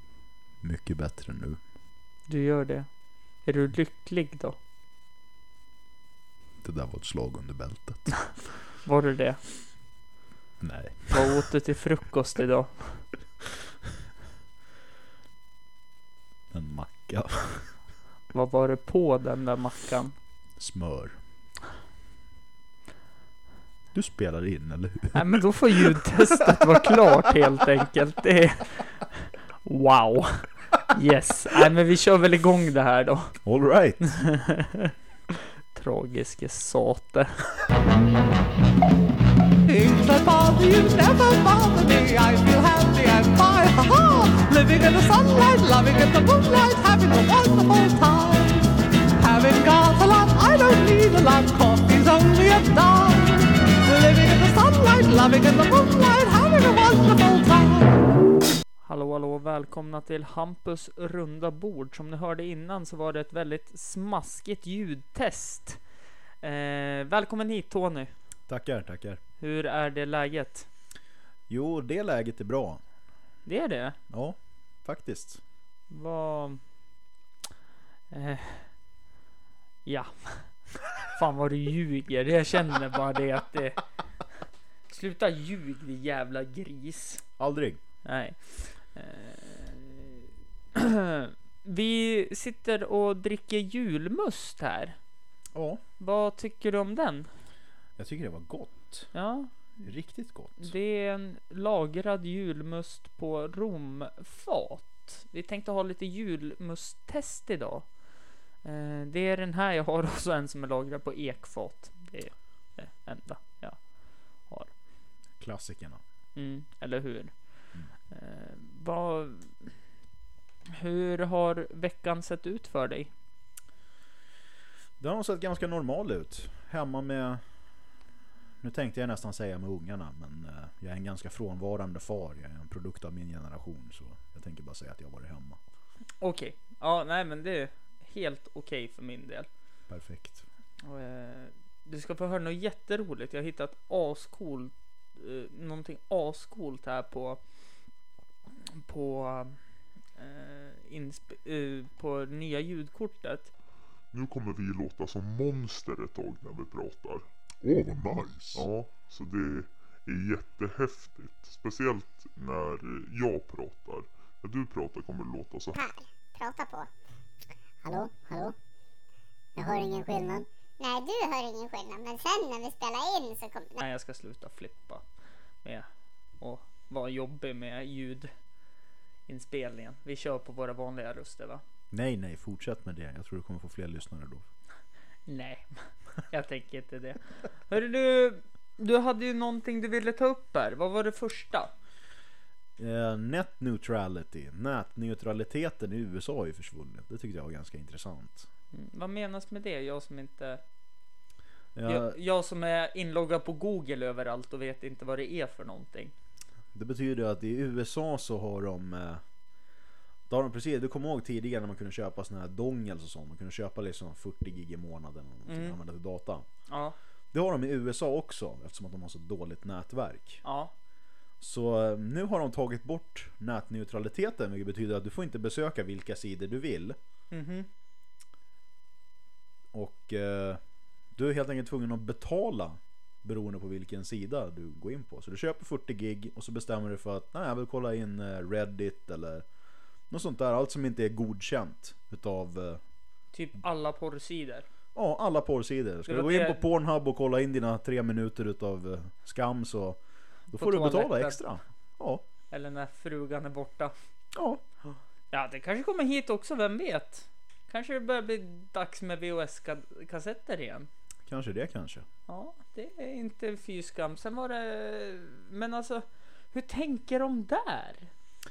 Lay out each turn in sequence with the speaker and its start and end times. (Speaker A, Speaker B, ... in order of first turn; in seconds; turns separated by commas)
Speaker A: 0.6-1.6, Speaker B: 2.3-2.9, Speaker B: 3.4-4.5, Speaker A: 6.6-8.2, Speaker B: 8.8-9.4, Speaker A: 10.6-11.4, Speaker B: 11.1-13.1, Speaker A: 16.5-17.7, Speaker B: 18.3-20.1, Speaker A: 20.6-21.1, Speaker A: 23.9-27.1, Speaker B: 25.1-29.1, Speaker B: 29.6-33.3, Speaker A: 33.4-34.2, Speaker B: 34.2-34.9, Speaker B: 35.7-37.3, Speaker C: 39.7-58.0, Speaker B: 58.8-65.8, Speaker B: 66.4-68.1, Speaker A: 68.5-69.2, Speaker B: 69.4-70.7, Speaker A: 71.5-72.8, Speaker B: 73.5-74.0, Speaker A: 74.1-75.4, Speaker B: 75.9-76.6, Speaker B: 78.1-78.7, Speaker B: 79.8-83.8, Speaker B: 84.9-87.2, Speaker A: 87.4-87.8, Speaker B: 88.0-90.2, Speaker B: 90.7-95.0, Speaker A: 95.5-95.8, Speaker B: 96.0-97.3, Speaker A: 98.0-99.1, Speaker B: 99.1-99.5, Speaker A: 99.8-100.7, Speaker B: 100.6-107.9, Speaker B: 108.6-113.8, Speaker A: 115.4-116.0, Speaker B: 116.3-117.3, Speaker B: 118.1-119.7, Speaker B: 120.7-123.1, Speaker A: 125.0-127.4, Speaker A: 128.6-135.6, Speaker B: 136.2-139.5, Speaker A: 139.9-140.4, Speaker B: 140.8-147.4, Speaker B: 148.7-149.6, Speaker B: 150.2-153.5, Speaker D: 154.1-165.8, Speaker E: 165.7-166.9, Speaker E: 167.8-168.5, Speaker E: 169.6-173.8, Speaker B: 173.8-175.0, Speaker B: 176.4-178.3, Speaker B: 179.3-181.6, Speaker A: 181.9-184.4, Speaker B: 185.3-191.7, Speaker A: 192.8-198.5, Speaker B: 198.7-200.6, Speaker A: 201.7-202.2, Speaker B: 201.8-206.1, Speaker A: 206.7-209.2, Speaker A: 210.3-216.5, Speaker B: 215.5-215.8, Speaker B: 216.7-216.9, Speaker A: 217.3-220.4, Speaker B: 220.4-220.7, Speaker A: 221.4-227.0, Speaker B: 227.3-227.7, Speaker A: 229.7-230.6, Speaker A: 231.1-239.4, Speaker A: 240.1-242.8, Speaker B: 243.3-244.7, Speaker A: 244.9-252.2, Speaker B: 246.1-246.6, Speaker B: 250.5-251.4, Speaker B: 252.5-253.9, Speaker A: 254.3-254.6, Speaker B: 255.3-260.9, Speaker A: 261.3-262.1, Speaker B: 262.3-268.1